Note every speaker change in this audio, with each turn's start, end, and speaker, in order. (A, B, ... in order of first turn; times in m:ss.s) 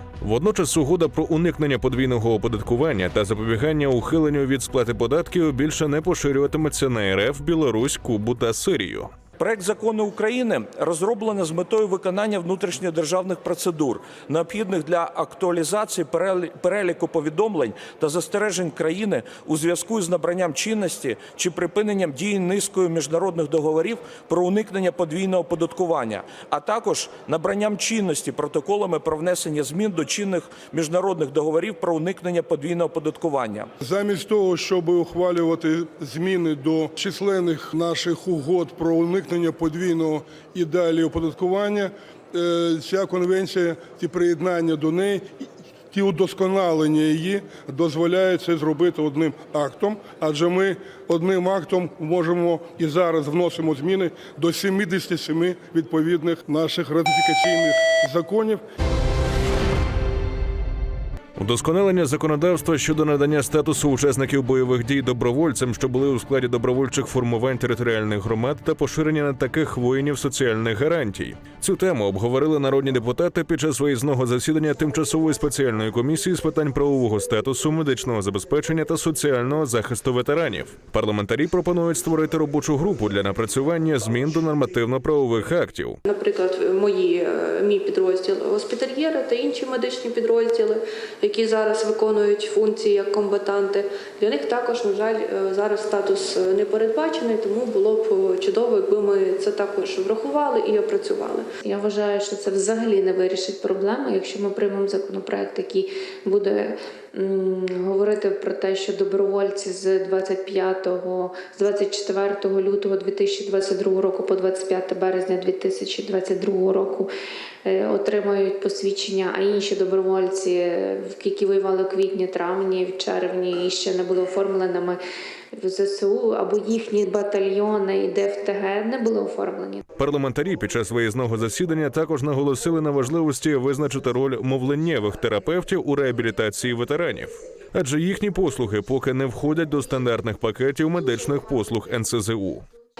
0:00.2-0:09.1 A
0:09.4-0:33.7 B
0:33.8-0:45.2 C
0:45.9-0:58.6 C
1:01.4-1:26.0 A
1:26.1-1:41.5 D
1:41.6-1:57.1 E
1:57.6-2:05.0 E
2:05.6-2:09.8 E
2:10.0-2:22.6 A